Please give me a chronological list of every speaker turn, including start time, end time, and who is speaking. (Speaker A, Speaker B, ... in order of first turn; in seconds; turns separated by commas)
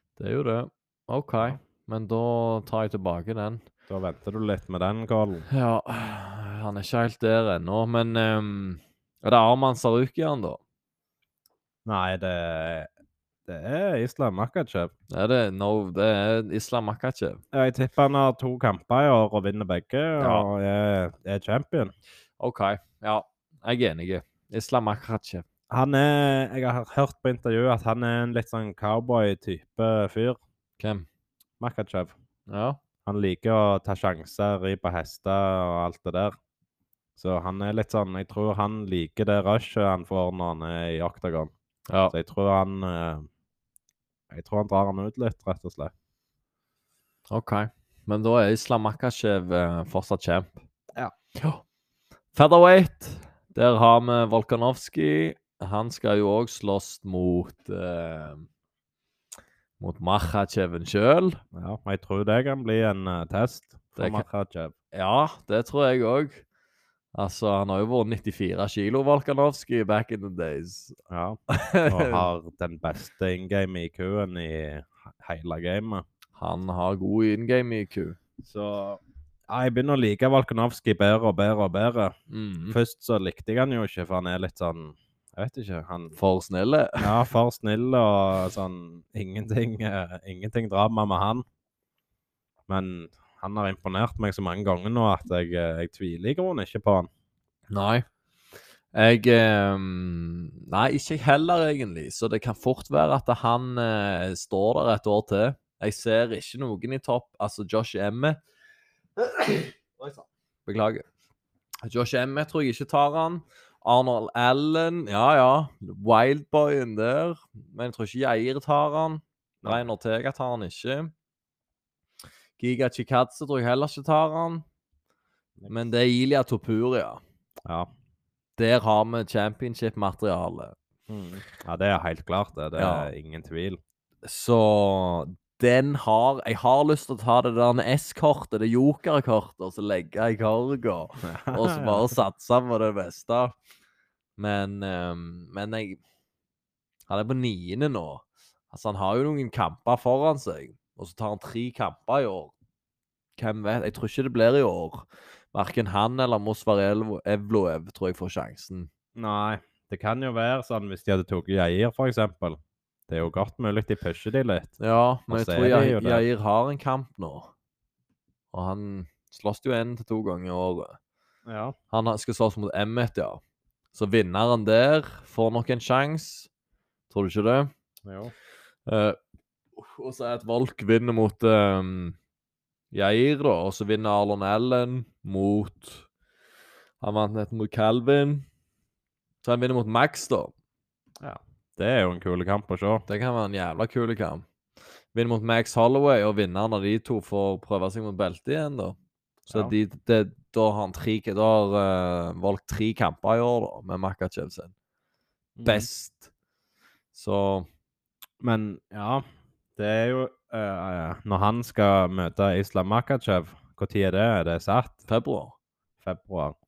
Speaker A: 0.2-3.7, Speaker B: 3.9-5.5, Speaker A: 5.5-10.6, Speaker B: 11.9-12.9, Speaker B: 13.5-14.9, Speaker A: 15.1-17.4, Speaker B: 17.5-21.9, Speaker A: 20.2-20.5, Speaker A: 22.4-25.4, Speaker B: 25.7-30.4, Speaker A: 30.8-31.1, Speaker B: 31.6-32.1, Speaker A: 32.5-32.8, Speaker B: 33.1-36.4, Speaker B: 37.2-41.5, Speaker A: 41.9-42.1, Speaker B: 42.1-43.3, Speaker B: 44.3-45.9, Speaker A: 47.3-50.6, Speaker A: 51.4-51.6, Speaker A: 52.3-58.5, Speaker A: 59.8-61.4, Speaker B: 61.5-64.7, Speaker A: 64.0-64.2, Speaker A: 64.9-66.4, Speaker A: 67.2-71.0, Speaker B: 71.1-76.0, Speaker A: 71.5-72.3, Speaker A: 76.4-78.2, Speaker B: 78.4-82.2, Speaker A: 82.3-82.8, Speaker B: 82.7-86.2, Speaker A: 86.2-87.3, Speaker B: 87.0-91.4, Speaker B: 92.7-97.1, Speaker A: 97.7-98.1, Speaker A: 98.9-108.4, Speaker A: 109.2-110.0, Speaker A: 110.7-111.0, Speaker A: 111.8-121.1, Speaker A: 122.6-124.7, Speaker B: 125.6-125.9, Speaker A: 125.7-127.2, Speaker A: 128.6-130.8, Speaker B: 131.1-133.8, Speaker A: 132.8-133.1, Speaker A: 134.2-143.6, Speaker B: 141.2-142.1, Speaker A: 144.4-146.0, Speaker A: 147.1-152.5, Speaker A: 153.4-158.9, Speaker B: 159.2-164.8, Speaker A: 164.8-167.5, Speaker B: 165.3-166.2, Speaker A: 168.5-171.0, Speaker B: 171.5-171.8, Speaker A: 171.9-173.4, Speaker A: 173.9-176.5, Speaker A: 177.1-177.7, Speaker B: 178.1-178.3, Speaker A: 178.9-179.2, Speaker A: 179.8-182.2, Speaker A: 182.9-186.1, Speaker A: 187.0-188.5, Speaker A: 189.4-190.5, Speaker B: 191.2-193.1, Speaker A: 193.1-194.5, Speaker A: 195.1-204.7, Speaker B: 205.6-205.9, Speaker A: 205.7-206.3, Speaker A: 207.1-207.7, Speaker B: 208.4-209.2, Speaker B: 209.8-215.0, Speaker A: 215.1-215.5, Speaker B: 216.0-216.6